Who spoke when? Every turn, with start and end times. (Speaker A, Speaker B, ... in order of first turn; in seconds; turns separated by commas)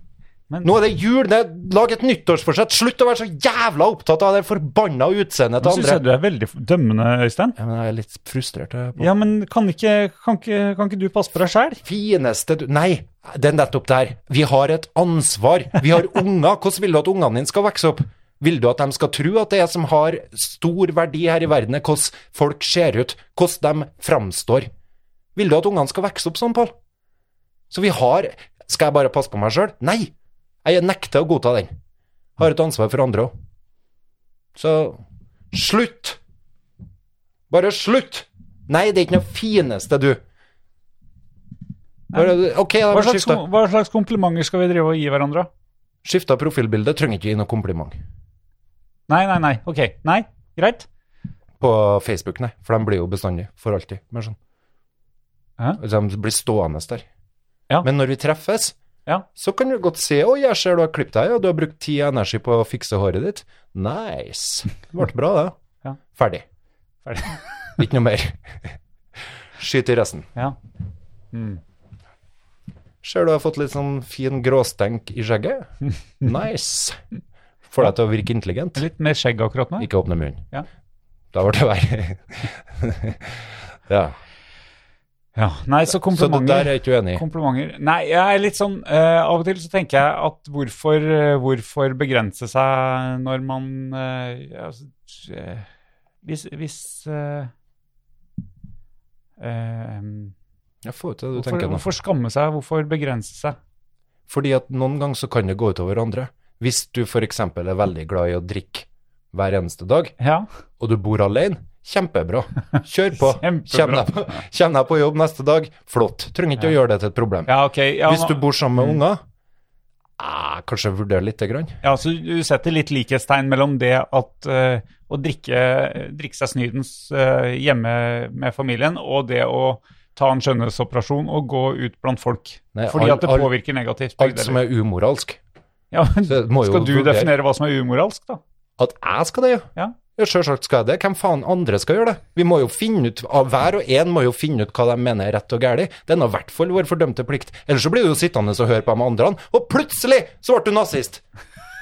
Speaker A: 0.6-6.0, Speaker B: 5.6-7.6, Speaker A: 7.6-9.1, Speaker B: 9.0-11.8, Speaker A: 11.8-24.7, Speaker A: 25.4-26.8, Speaker A: 27.7-30.1, Speaker A: 30.6-31.7, Speaker A: 32.4-33.3, Speaker A: 34.5-36.2, Speaker A: 37.5-40.2, Speaker B: 42.1-45.5, Speaker A: 42.1-43.4, Speaker A: 46.0-48.0, Speaker B: 49.1-50.9, Speaker A: 51.6-54.4, Speaker A: 55.8-57.0, Speaker A: 57.8-58.8, Speaker A: 59.4-65.6, Speaker A: 66.1-66.5, Speaker B: 67.0-67.8, Speaker A: 67.8-68.8, Speaker A: 69.6-70.3, Speaker B: 71.3-71.6, Speaker A: 73.0-75.7, Speaker A: 76.2-77.0, Speaker A: 77.7-78.8, Speaker B: 78.8-79.9, Speaker A: 79.8-80.5, Speaker A: 81.3-84.2, Speaker B: 85.3-95.7, Speaker A: 86.0-87.2, Speaker B: 96.2-97.5, Speaker B: 99.4-100.3, Speaker A: 100.8-101.9, Speaker B: 101.3-103.6, Speaker A: 104.3-110.1, Speaker B: 110.2-110.5, Speaker A: 110.8-117.5, Speaker B: 113.3-114.4, Speaker B: 117.5-119.0, Speaker A: 118.0-119.2, Speaker A: 120.2-121.8, Speaker B: 121.8-134.6, Speaker A: 132.8-133.5, Speaker A: 134.2-135.4, Speaker B: 135.9-138.4, Speaker A: 136.2-137.3, Speaker A: 138.8-151.2